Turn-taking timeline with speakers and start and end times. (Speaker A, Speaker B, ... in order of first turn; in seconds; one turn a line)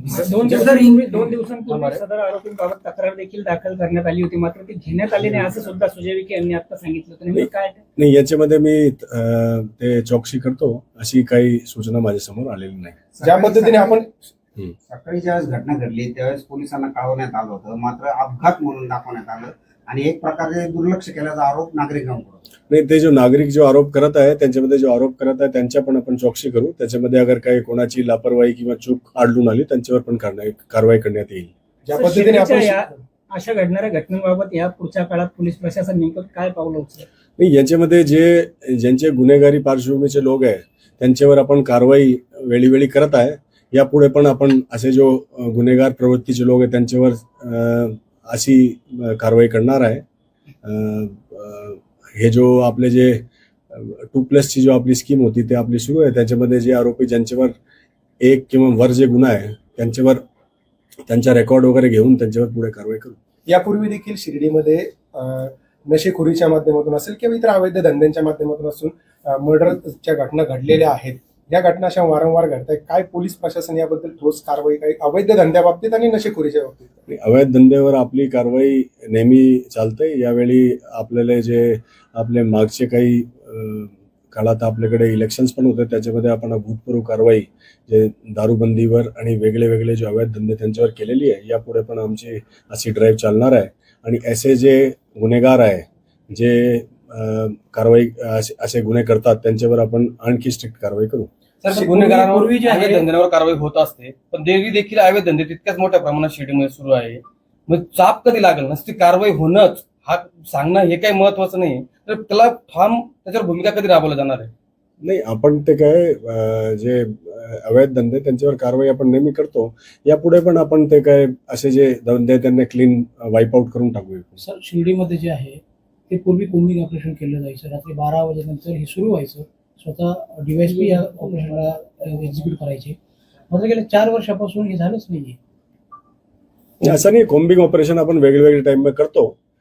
Speaker A: 0.1-0.8
Speaker B: 0.1-7.8
Speaker A: 1.7-2.0
Speaker C: 7.3-13.0
Speaker D: 13.2-14.1
Speaker E: 13.4-13.7
Speaker E: 14.9-22.4
Speaker C: 22.7-31.5
Speaker D: 31.8-33.0
Speaker B: 31.9-37.1
Speaker C: 37.4-50.0
Speaker C: 50.6-57.5
Speaker C: 58.2-60.2
Speaker C: 61.1-63.2
Speaker D: 63.5-76.9
Speaker C: 77.1-101.3
Speaker A: 101.6-114.5
Speaker F: 101.7-103.1
Speaker C: 115.0-124.4
Speaker F: 124.4-133.0
Speaker F: 133.5-135.4
Speaker C: 136.8-139.3